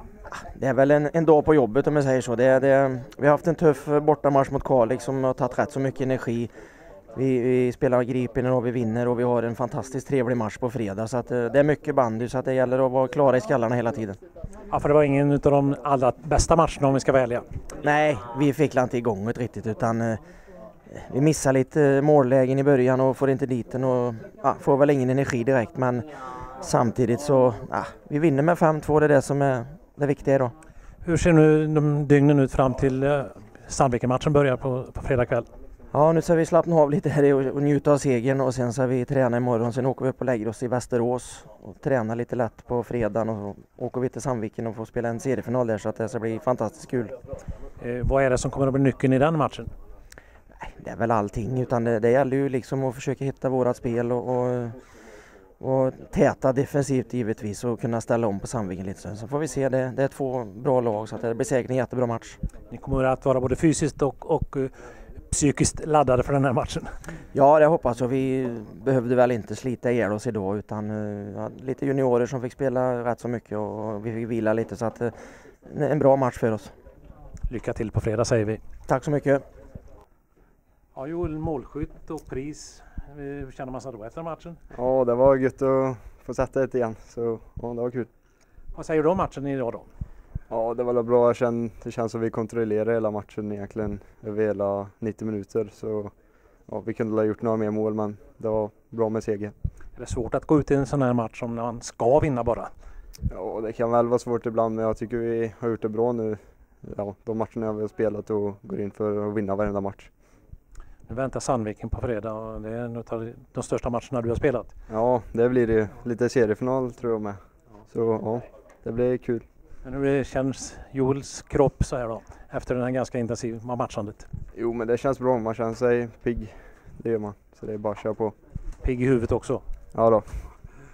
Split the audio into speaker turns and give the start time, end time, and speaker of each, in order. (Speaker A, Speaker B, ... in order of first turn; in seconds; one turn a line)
Speaker A: 0.3-6.5
Speaker A: 7.1-14.2
Speaker B: 14.7-17.4
Speaker A: 17.8-20.2
Speaker A: 20.9-30.5
Speaker B: 31.0-35.5
Speaker A: 35.9-47.1
Speaker B: 47.8-49.7
Speaker A: 50.6-54.8
Speaker A: 55.6-62.4
Speaker B: 62.7-66.9
Speaker A: 67.3-76.7
Speaker B: 77.5-78.6
Speaker A: 78.9-79.4
Speaker B: 80.9-84.6
Speaker C: 84.7-88.1
Speaker B: 88.7-89.8
Speaker C: 90.5-99.5
Speaker B: 100.0-102.7
Speaker C: 103.3-110.1
Speaker B: 111.1-114.7
Speaker C: 114.9-119.5
Speaker B: 119.8-124.3
Speaker C: 124.5-128.3
Speaker B: 128.8-129.6
Speaker C: 129.9-130.5